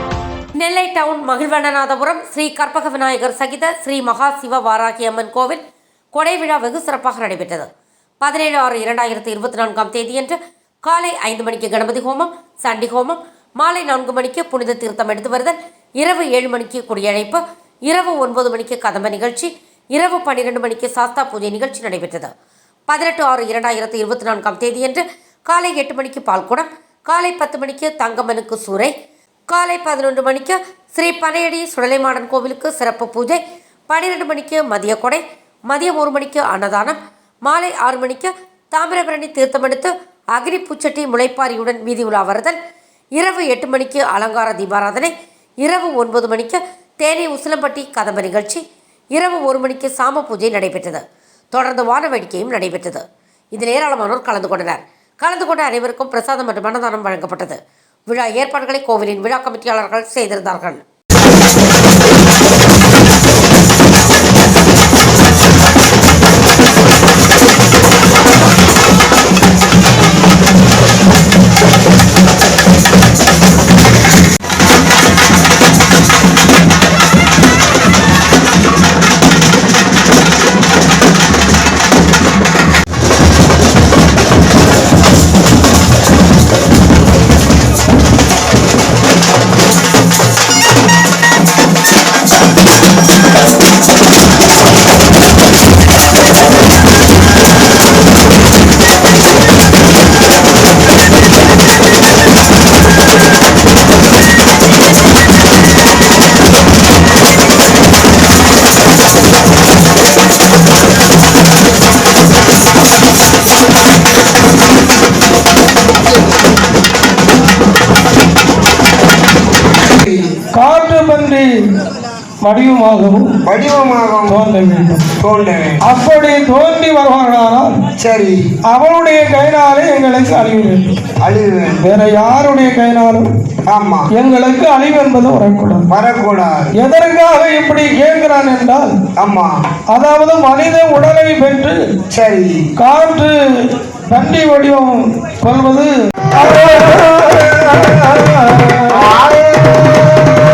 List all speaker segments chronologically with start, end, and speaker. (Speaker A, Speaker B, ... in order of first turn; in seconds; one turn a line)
Speaker A: 0.6-7.7
Speaker A: 8.2-22.3
Speaker A: 22.9-28.9
Speaker A: 29.5-42.6
Speaker A: 43.1-48.6
Speaker A: 49.1-60.8
Speaker B: 120.0-120.3
Speaker C: 120.5-121.7
Speaker C: 122.4-123.4
Speaker B: 123.5-124.4
Speaker C: 124.3-125.1
Speaker B: 125.2-125.8
Speaker C: 125.8-127.8
Speaker B: 128.0-128.5
Speaker C: 128.7-130.9
Speaker B: 131.2-131.8
Speaker C: 131.8-133.2
Speaker B: 133.7-134.1
Speaker C: 134.1-135.9
Speaker B: 135.9-136.7
Speaker C: 136.8-138.9
Speaker B: 139.2-139.6
Speaker C: 139.9-142.0
Speaker B: 142.1-142.7
Speaker C: 142.8-149.1
Speaker B: 149.1-150.4